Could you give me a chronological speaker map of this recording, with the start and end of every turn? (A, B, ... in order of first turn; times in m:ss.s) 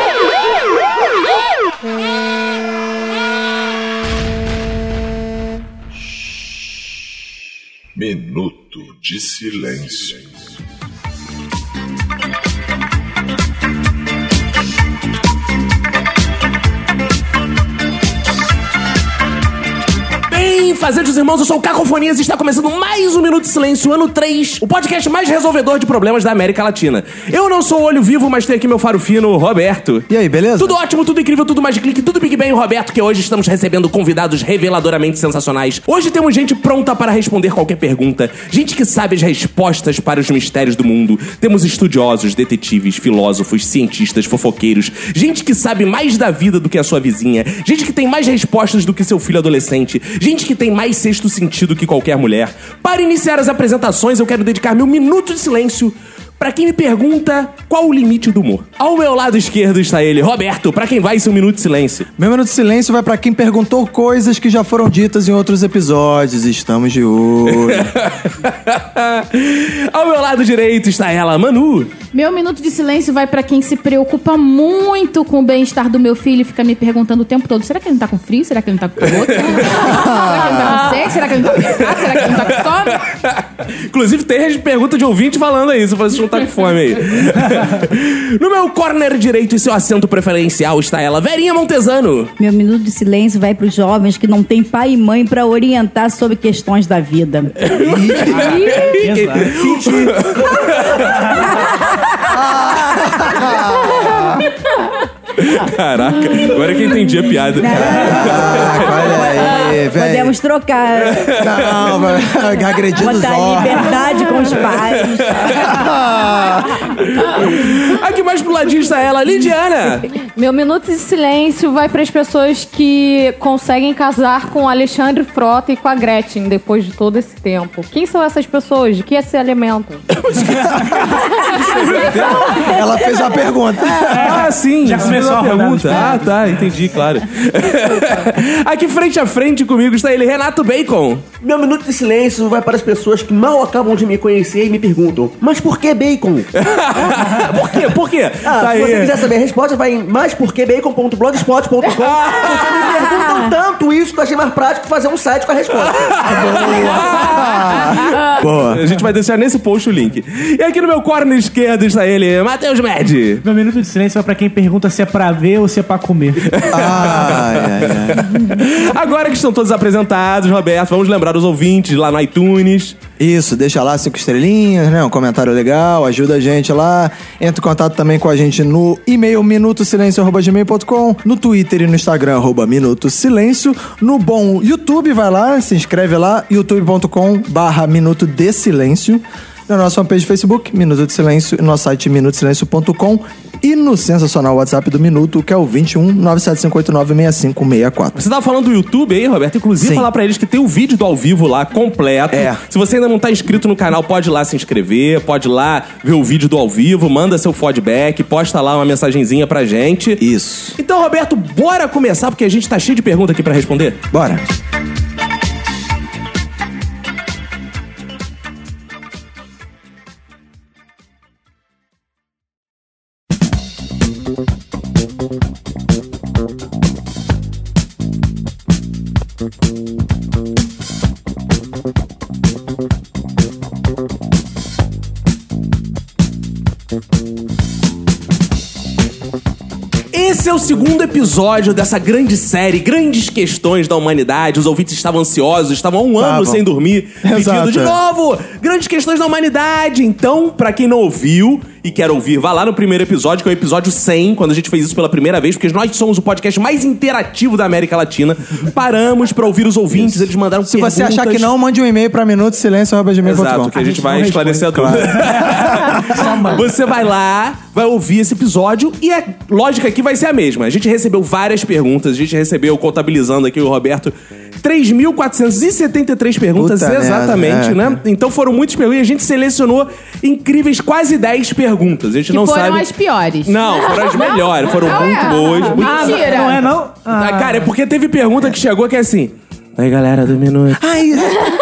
0:07.9-0:10.4 A
0:20.3-1:02.1 B
0:30.1-0:30.8 C
1:02.2-1:07.9 C
1:07.4-1:11.9 B
1:12.1-1:23.0 D
1:19.4-1:19.8 B
1:19.9-1:20.5 C
1:20.7-1:21.1 E
1:21.6-1:32.3 B
1:32.4-1:37.6 F
1:37.7-1:41.2 B
1:37.7-1:38.8 C
1:39.0-1:39.6 G
1:39.5-1:40.4 C
1:42.3-1:44.4 C
1:45.3-1:49.3 B
1:47.6-1:51.4 F
1:47.6-1:50.4 C
1:51.1-1:51.9 B
1:51.3-1:53.9 C
1:53.0-1:55.4 F
1:55.1-1:55.8 B
1:55.5-1:56.8 C
1:57.0-2:00.1 B
2:00.2-2:10.0 E
2:10.2-2:12.8 B
2:12.6-2:14.4 C
2:14.0-2:21.2 B
2:14.0-2:16.6 G
2:21.4-2:26.5 H
2:26.6-2:29.2 B
2:28.4-2:36.2 H
2:32.3-2:32.6 B
2:35.9-2:43.4 B
2:36.2-2:38.9 C
2:43.4-2:46.5 G
2:46.5-2:53.0 B
2:46.7-2:48.3 C
2:53.2-3:18.2 C
3:18.2-3:30.2 B
3:19.8-3:20.1 C
3:22.3-3:22.6 C
3:30.2-3:30.8 C
3:30.8-3:34.0 B
3:34.1-3:34.4 C
4:00.1-4:21.5 B
4:06.2-4:06.6 C
4:07.2-4:08.0 C
4:19.9-4:23.8 C
4:23.2-4:42.9 B
4:23.8-4:25.3 G
4:24.7-4:26.3 C
4:25.9-4:26.6 G
4:36.6-4:38.0 C
4:42.3-4:46.7 D
4:43.4-4:46.3 B
4:45.7-4:47.7 G
4:47.2-4:50.9 B
4:50.8-4:51.4 C